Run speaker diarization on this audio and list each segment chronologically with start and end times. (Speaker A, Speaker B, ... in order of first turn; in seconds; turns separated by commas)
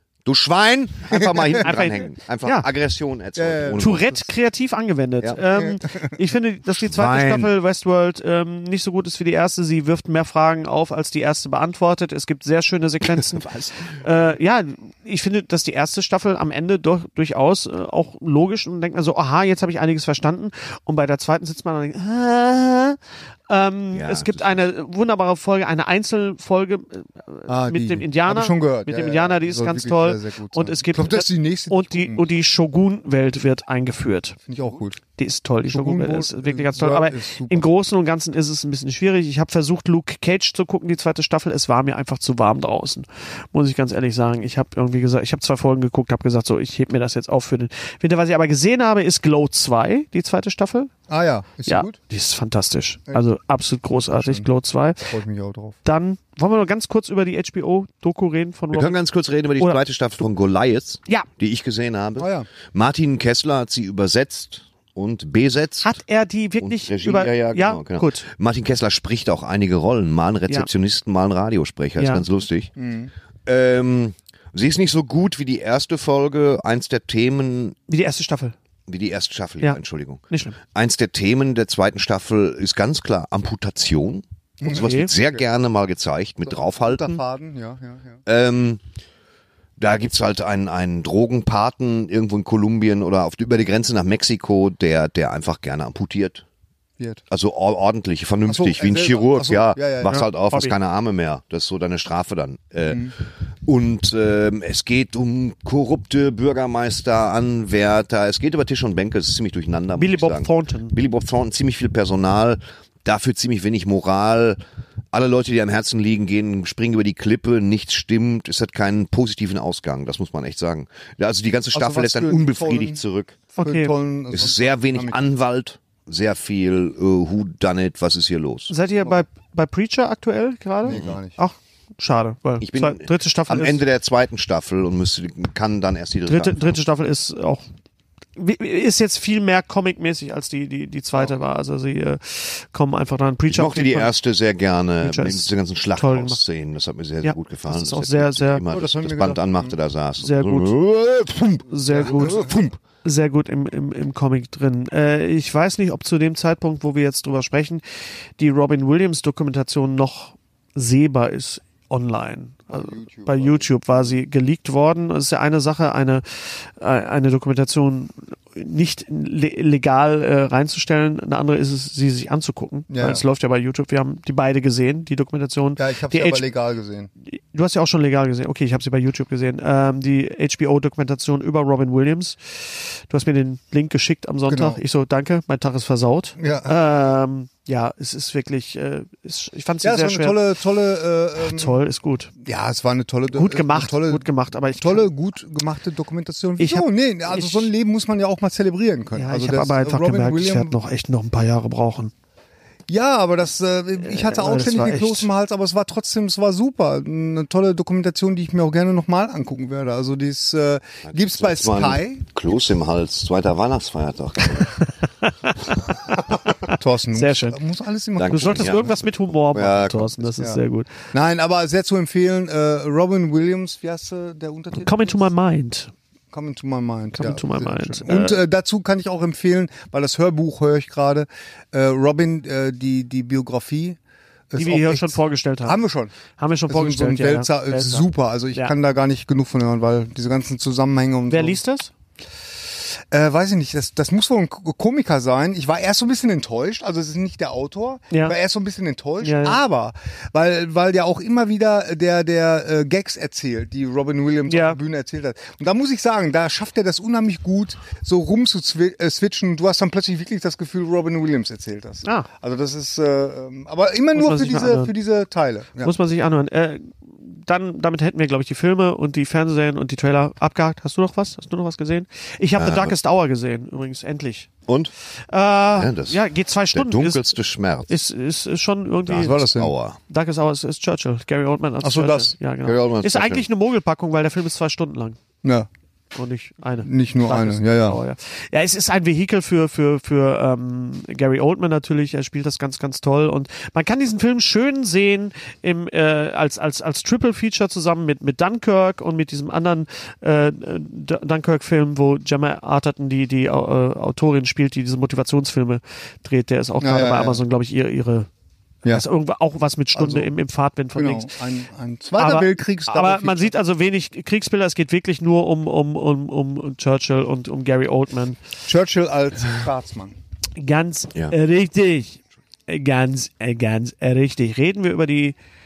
Speaker A: 0.2-4.2, Speaker B: 1.1-1.6, Speaker C: 1.6-2.6, Speaker B: 3.4-4.2, Speaker C: 3.8-23.0, Speaker B: 5.5-6.1, Speaker A: 6.7-7.5, Speaker A: 13.0-13.8, Speaker C: 23.5-34.4, Speaker A: 23.9-24.6, Speaker B: 27.5-32.3, Speaker B: 34.5-35.0, Speaker C: 35.1-50.9, Speaker B: 35.7-37.7, Speaker B: 51.1-52.0, Speaker C: 51.6-55.2, Speaker B: 54.1-54.5, Speaker B: 55.1-55.8, Speaker C: 55.8-59.0, Speaker A: 58.7-66.0, Speaker B: 62.2-62.5, Speaker C: 65.8-68.2, Speaker A: 66.6-72.7, Speaker C: 72.0-72.2, Speaker B: 72.8-73.1, Speaker A: 73.5-77.8, Speaker C: 77.9-78.5, Speaker A: 78.9-87.2, Speaker C: 80.3-80.6, Speaker B: 84.6-85.4, Speaker C: 84.7-85.1, Speaker B: 86.5-88.2, Speaker A: 88.2-88.8, Speaker A: 89.8-96.4, Speaker A: 97.3-103.1, Speaker B: 98.5-100.2, Speaker C: 100.1-100.7, Speaker A: 103.7-114.6, Speaker C: 110.0-111.0, Speaker A: 115.1-123.4, Speaker B: 121.7-123.0, Speaker C: 123.5-123.9, Speaker B: 123.6-125.3, Speaker A: 124.3-128.7, Speaker C: 128.7-133.8, Speaker B: 130.8-131.4, Speaker A: 130.9-131.2, Speaker A: 132.6-136.8, Speaker C: 136.3-137.6, Speaker C: 138.4-144.1, Speaker A: 143.5-152.8, Speaker C: 145.0-146.4, Speaker C: 147.2-148.6, Speaker B: 148.7-149.7, Speaker C: 150.2-150.7, Speaker C: 151.7-157.8, Speaker B: 152.0-152.5, Speaker C: 158.4-176.5, Speaker B: 162.7-164.1, Speaker B: 172.9-173.2, Speaker B: 175.8-177.1, Speaker C: 177.3-190.4, Speaker B: 184.5-184.8, Speaker B: 186.4-186.7, Speaker B: 189.8-191.8, Speaker C: 191.4-192.3, Speaker B: 192.4-194.2, Speaker C: 193.3-195.1, Speaker B: 194.8-200.7, Speaker C: 196.6-197.7, Speaker C: 199.1-202.1, Speaker B: 202.9-212.2, Speaker C: 204.0-205.3, Speaker A: 211.1-214.7, Speaker C: 214.6-215.5, Speaker C: 216.7-217.6, Speaker B: 216.7-218.9, Speaker A: 218.2-220.3, Speaker C: 218.3-220.9, Speaker B: 221.1-225.3, Speaker C: 224.8-225.9, Speaker B: 226.3-234.0, Speaker C: 227.1-228.4, Speaker B: 234.5-236.1, Speaker C: 234.6-235.8, Speaker C: 236.4-238.7, Speaker B: 236.7-241.6, Speaker C: 241.3-241.9, Speaker B: 243.1-265.9, Speaker C: 249.2-249.6, Speaker C: 254.5-254.8, Speaker C: 264.1-264.9, Speaker C: 265.8-274.5, Speaker A: 272.6-272.9, Speaker A: 274.7-274.9, Speaker C: 275.3-277.2, Speaker A: 275.8-277.9, Speaker C: 277.9-279.5, Speaker A: 279.1-280.0, Speaker B: 279.1-279.7, Speaker C: 280.1-285.2, Speaker B: 281.8-282.3, Speaker A: 282.6-283.4, Speaker C: 286.1-308.3, Speaker B: 286.8-288.0, Speaker B: 306.8-307.4, Speaker C: 308.9-311.3, Speaker B: 309.9-310.3, Speaker B: 310.9-313.5, Speaker C: 312.2-318.4, Speaker B: 318.6-320.1, Speaker C: 320.6-325.4